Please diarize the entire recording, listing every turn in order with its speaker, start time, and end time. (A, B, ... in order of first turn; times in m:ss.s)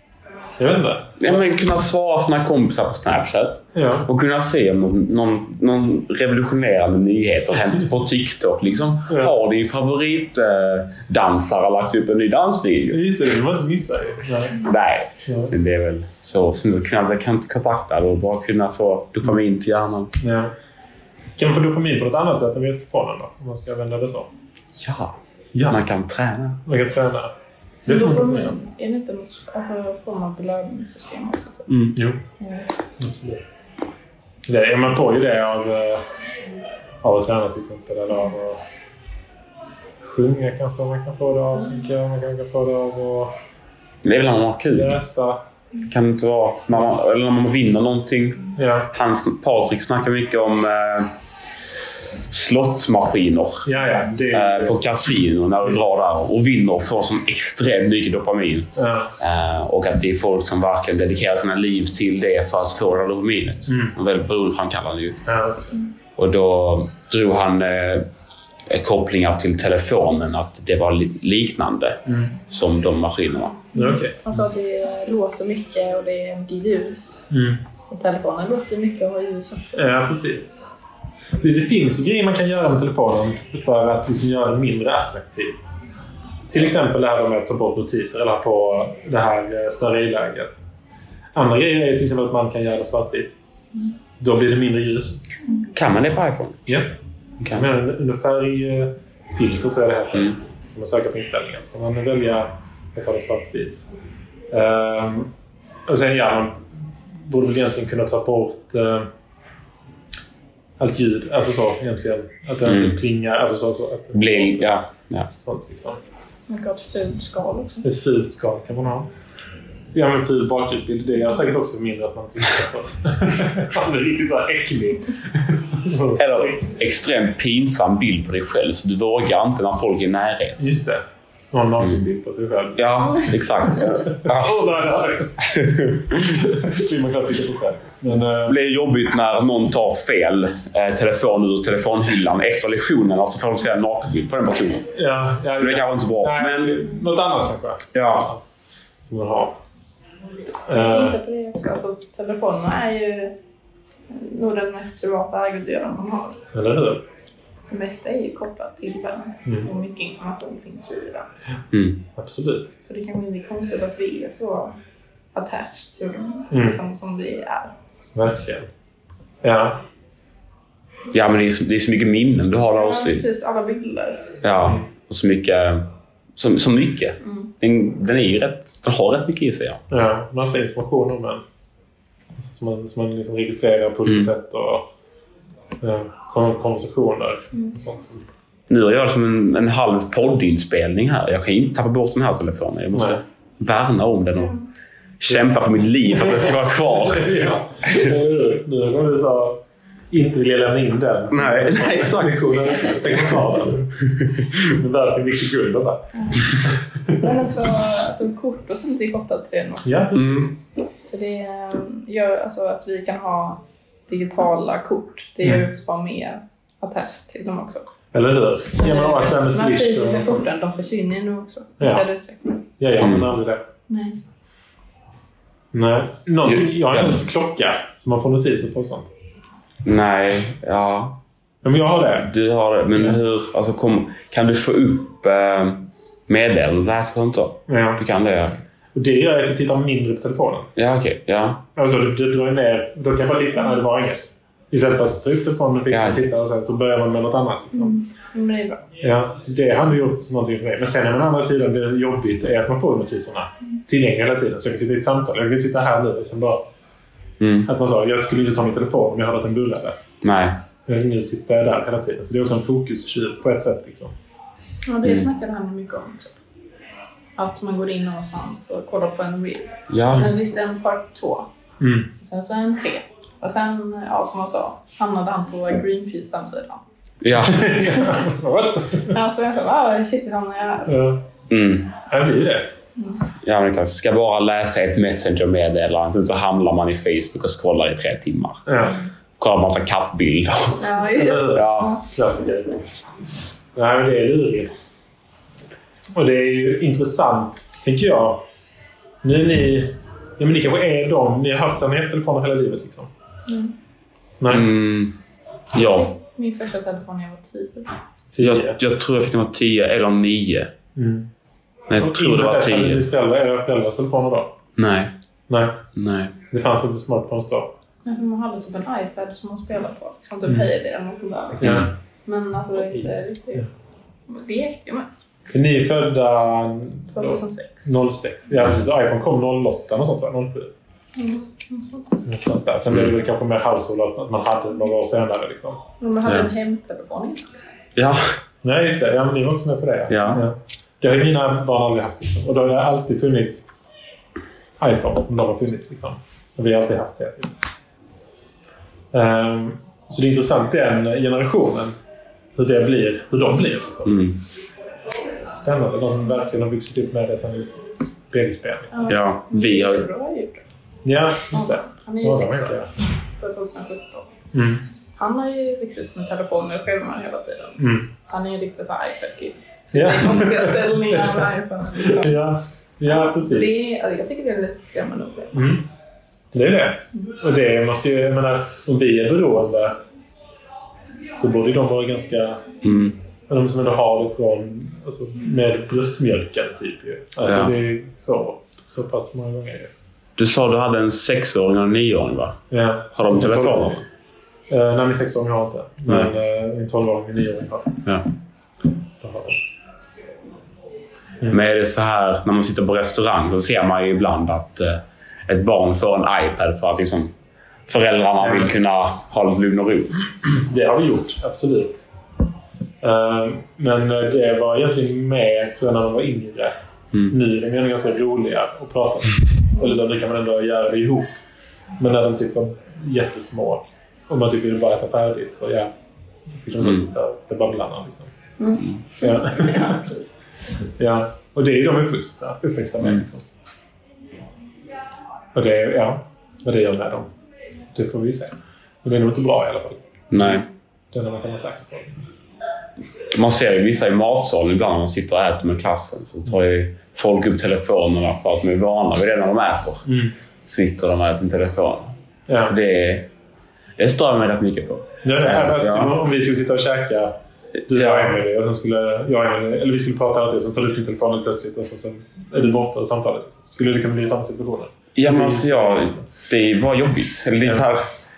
0:00.6-0:01.4 A
0:01.2-0:13.0 B
0:03.8-0:04.1 A
0:09.1-0:09.3 A
0:12.9-0:14.6 A
0:14.6-0:20.1 B
0:15.3-0:15.5 A
0:20.2-0:20.5 A
0:21.4-0:24.3 A
0:24.8-0:26.6 B
0:25.5-0:25.8 A
0:26.6-0:27.3 A
0:27.9-0:28.5 A
0:27.9-0:31.7 C
0:31.7-0:32.0 B
0:31.9-0:32.2 A
0:32.4-0:32.7 C
0:33.0-0:33.4 A
0:34.4-0:36.0 A
0:37.0-0:38.6 A
0:40.0-0:43.4 A
0:44.0-0:45.0 B
0:44.8-0:45.4 A
0:45.9-0:51.1 B
0:48.6-0:48.9 A
0:52.3-0:53.7 B
0:53.6-0:54.8 A
0:54.3-1:05.2 B
0:58.8-0:59.1 A
1:03.7-1:03.9 A
1:05.2-1:05.8 A
1:06.2-1:08.1 B
1:08.7-1:13.6 B
1:12.1-1:12.3 A
1:13.7-1:14.4 A
1:13.7-1:17.3 C
1:17.3-1:17.6 A
1:17.9-1:19.9 C
1:19.8-1:20.5 A
1:21.4-1:25.6 A
1:26.5-1:30.6 A
1:31.3-1:33.4 A
1:34.2-1:35.2 A
1:35.7-1:36.6 B
1:37.4-1:37.7 B
1:37.5-1:43.8 A
1:44.5-1:45.3 A
1:45.9-1:49.1 A
1:50.8-1:54.8 A
1:52.6-1:53.0 B
1:54.1-1:55.3 B
1:55.4-1:56.0 A
1:56.5-1:57.8 C
1:57.8-1:59.1 A
1:59.9-2:06.7 A
2:06.2-2:10.6 B
2:10.6-2:13.3 A
2:12.8-2:14.6 B
2:13.8-2:18.6 A
2:15.4-2:16.4 B
2:18.4-2:24.9 B
2:24.9-2:28.4 A
2:25.6-2:26.9 B
2:27.9-2:28.3 B
2:29.1-2:29.6 A
2:30.7-2:31.2 A
2:30.7-2:33.4 C
2:34.1-2:36.4 C
2:36.5-2:37.0 A
2:37.7-2:41.3 C
2:39.4-2:39.7 A
2:41.7-2:42.0 B
2:42.2-2:42.8 A
2:42.8-2:44.8 C
2:45.3-2:47.7 C
2:46.5-2:46.8 A
2:48.1-2:48.7 A
2:49.4-2:49.8 A
2:51.1-2:53.2 B
2:52.6-2:54.4 C
2:54.4-2:59.8 B
2:57.2-2:57.5 C
2:59.9-3:01.4 A
3:02.4-3:04.9 A
3:05.8-3:08.2 A
3:08.7-3:14.6 B
3:12.9-3:13.2 A
3:15.2-3:18.1 B
3:16.2-3:27.4 A
3:21.3-3:23.1 B
3:26.2-3:26.4 C
3:27.1-3:30.0 C
3:29.8-3:30.5 A
3:30.1-3:30.5 B
3:31.1-3:37.9 C
3:38.1-3:40.4 A
3:38.8-3:42.7 C
3:41.8-3:42.0 A
3:42.8-3:43.6 A
3:43.0-3:43.3 B
3:43.9-3:44.2 C
3:45.7-3:49.1 A
3:46.4-3:47.2 B
3:49.8-3:51.2 B
3:51.6-3:52.3 A
3:52.2-3:58.6 B
3:57.7-3:58.0 A
3:58.9-4:00.7 A
4:00.8-4:01.6 B
4:01.8-4:07.9 A
4:05.9-4:06.2 B
4:07.8-4:08.8 C
4:09.0-4:16.7 A
4:17.4-4:17.7 B
4:17.7-4:20.0 A
4:20.2-4:20.6 B
4:20.9-4:24.1 A
4:24.9-4:26.4 C
4:27.4-4:31.5 C
4:29.9-4:30.3 B
4:31.8-4:32.1 A
4:32.2-4:36.8 C
4:37.2-4:37.9 B
4:37.4-4:39.2 A
4:37.9-4:38.2 C
4:39.1-4:41.0 C
4:40.9-4:41.2 A
4:41.5-4:41.9 B
4:42.1-4:42.7 A
4:43.0-4:43.2 C
4:43.4-4:48.6 B
4:48.6-4:49.0 A
4:49.4-4:50.8 B
4:50.8-4:52.0 C
4:51.1-4:52.8 A
4:51.5-4:52.0 B
4:53.8-4:54.8 A
4:56.1-4:58.4 A
4:59.2-5:03.1 A
5:03.5-5:03.7 C
5:04.4-5:04.7 A
5:04.5-5:05.1 B
5:05.7-5:06.1 B
5:05.8-5:07.9 C
5:08.3-5:08.8 A
5:08.4-5:10.7 B
5:10.9-5:11.3 A
5:11.9-5:13.1 B
5:11.9-5:14.6 A
5:14.8-5:15.1 B
5:15.5-5:15.8 A
5:15.9-5:16.4 B
5:16.5-5:17.7 A
5:18.0-5:23.7 C
5:21.6-5:21.9 A
5:21.6-5:21.9 B
5:23.0-5:23.6 A
5:24.3-5:25.3 C
5:25.5-5:30.7 A
5:27.1-5:27.9 C
5:31.2-5:32.2 C
5:32.2-5:35.8 A
5:36.0-5:37.5 C
5:38.0-5:38.3 B
5:38.6-5:43.6 A
5:40.1-5:40.4 B
5:44.8-5:47.6 A
5:49.1-5:51.9 A
5:52.6-5:54.1 A
5:54.0-5:54.4 B
5:55.6-5:59.1 A
5:58.9-6:00.6 C
5:59.1-6:00.1 B
6:01.0-6:02.9 A
6:01.5-6:04.3 C
6:04.5-6:04.8 A
6:05.2-6:12.4 C
6:07.8-6:08.1 A
6:09.9-6:13.8 A
6:13.0-6:15.6 C
6:15.5-6:15.9 A
6:16.5-6:20.0 A
6:21.3-6:22.6 A
6:22.8-6:23.2 B
6:23.5-6:29.9 A
6:27.4-6:27.7 B
6:30.4-6:32.6 B
6:32.7-6:34.0 A
6:33.1-6:34.0 B
6:34.7-6:38.0 A
6:36.1-6:36.3 B
6:39.2-6:39.6 A
6:41.5-6:47.3 B
6:47.9-6:50.3 B
6:48.4-6:48.7 A
6:50.5-6:52.1 A
6:53.0-6:56.7 A
6:57.3-7:01.3 A
7:02.0-7:05.9 A
7:06.5-7:08.3 A
7:08.6-7:10.2 C
7:09.2-7:10.1 A
7:11.0-7:13.4 A
7:15.6-7:17.3 A
7:17.9-7:20.6 A
7:20.3-7:20.7 B
7:21.1-7:22.3 A
7:23.3-7:32.1 B
7:30.1-7:30.3 A
7:32.5-7:32.8 A
7:32.6-7:33.3 B
7:34.0-7:36.2 B
7:35.2-7:37.3 A
7:37.9-7:38.4 B
7:37.9-7:46.2 A
7:45.1-7:48.1 B